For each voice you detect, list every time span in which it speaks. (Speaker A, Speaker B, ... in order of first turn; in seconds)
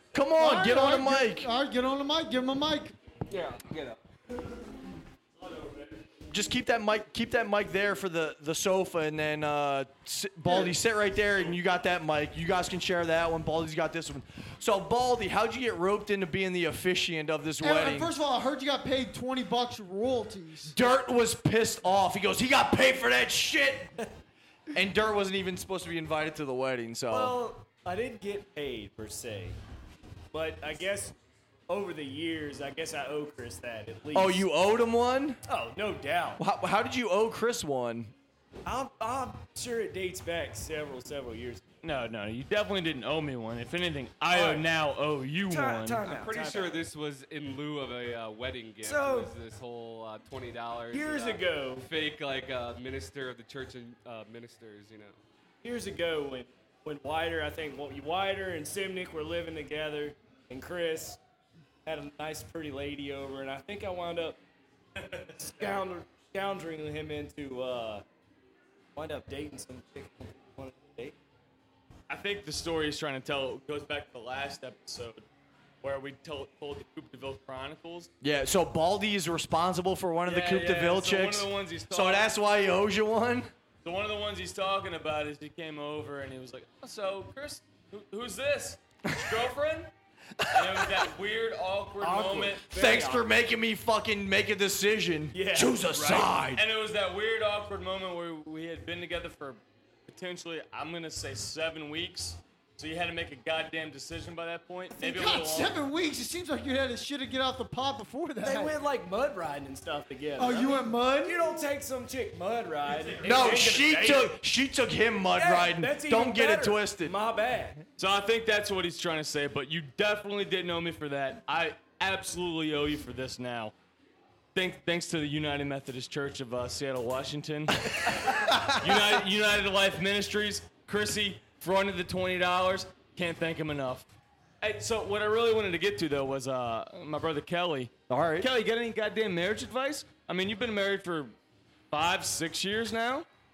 Speaker A: 0.1-1.5, 6.3-18.1, 20.7-23.9, 24.7-27.4, 34.1-35.4, 36.4-38.1, 78.2-83.5, 90.6-90.8, 92.7-96.6, 113.2-117.2, 138.1-138.5
Speaker B: 0.4-2.9, 17.6-20.8, 105.0-108.8, 110.4-111.4
Speaker C: 3.3-4.0, 46.0-55.2
Speaker D: 27.1-29.6, 30.3-31.1, 31.7-34.5, 35.5-36.4, 38.7-41.7, 44.3-44.7, 45.5-46.8, 48.8-49.3, 50.9-51.9, 55.6-61.2, 61.9-64.4, 65.0-68.0, 69.0-71.2, 92.0-93.2, 95.3-96.4, 108.4-114.4, 115.3-117.8
Speaker E: 41.8-46.1, 72.1-75.2, 75.8-78.1, 80.2-82.3, 83.8-89.9, 90.5-93.2, 96.4-105.8, 118.0-123.7, 124.5-128.1, 128.7-141.3, 141.9-143.3